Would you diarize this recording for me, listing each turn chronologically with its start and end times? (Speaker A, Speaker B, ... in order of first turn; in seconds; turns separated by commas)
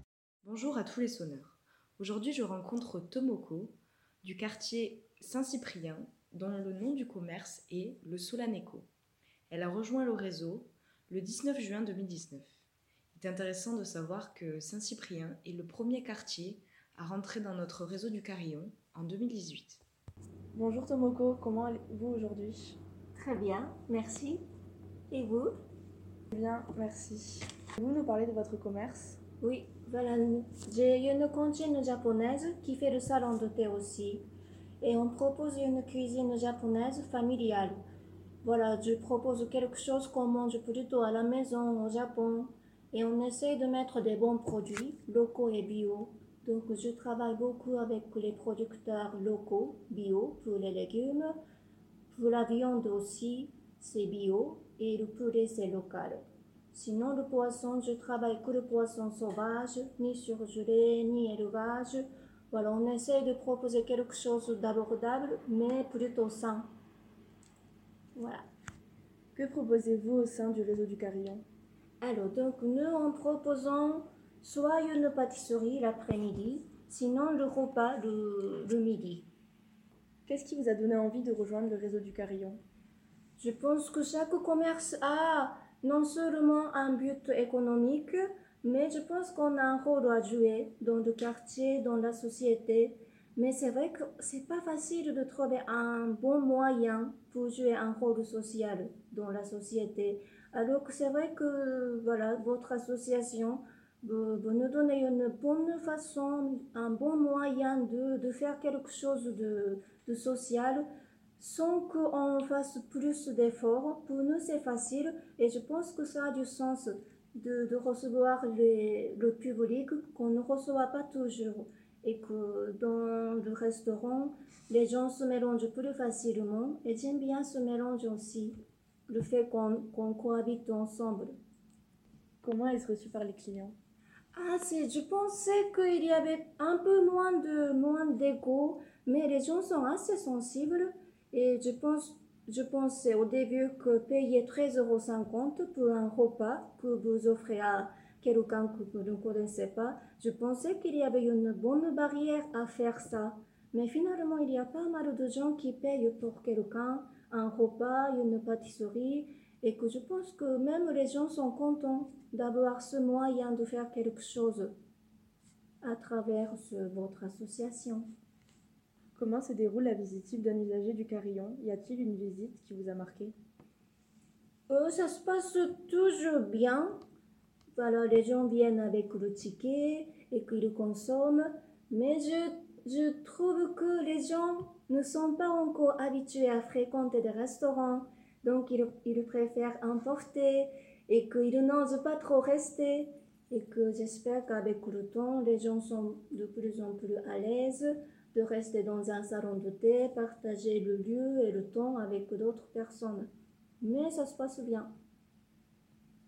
Speaker A: 0.4-8.9, Speaker A: 9.5-12.5, Speaker A: 13.1-19.8, Speaker B: 20.5-22.8, Speaker C: 23.1-24.4, Speaker C: 25.1-25.5, Speaker B: 26.3-29.2, Speaker C: 29.4-34.3, Speaker C: 34.8-37.8, Speaker C: 38.4-51.4, Speaker C: 52.1-56.2, Speaker C: 56.7-66.7, Speaker C: 68.1-68.4, Speaker B: 69.3-71.4, Speaker C: 72.0-79.3, Speaker B: 80.2-82.6, Speaker C: 83.4-110.8, Speaker C: 111.4-128.6, Speaker C: 129.1-131.3, Speaker B: 132.4-133.8, Speaker C: 134.3-164.7, Speaker C: 165.8-168.1, Speaker B: 169.1-173.3, Speaker C: 174.7-177.0, Speaker C: 177.7-203.3, Speaker C: 203.8-204.9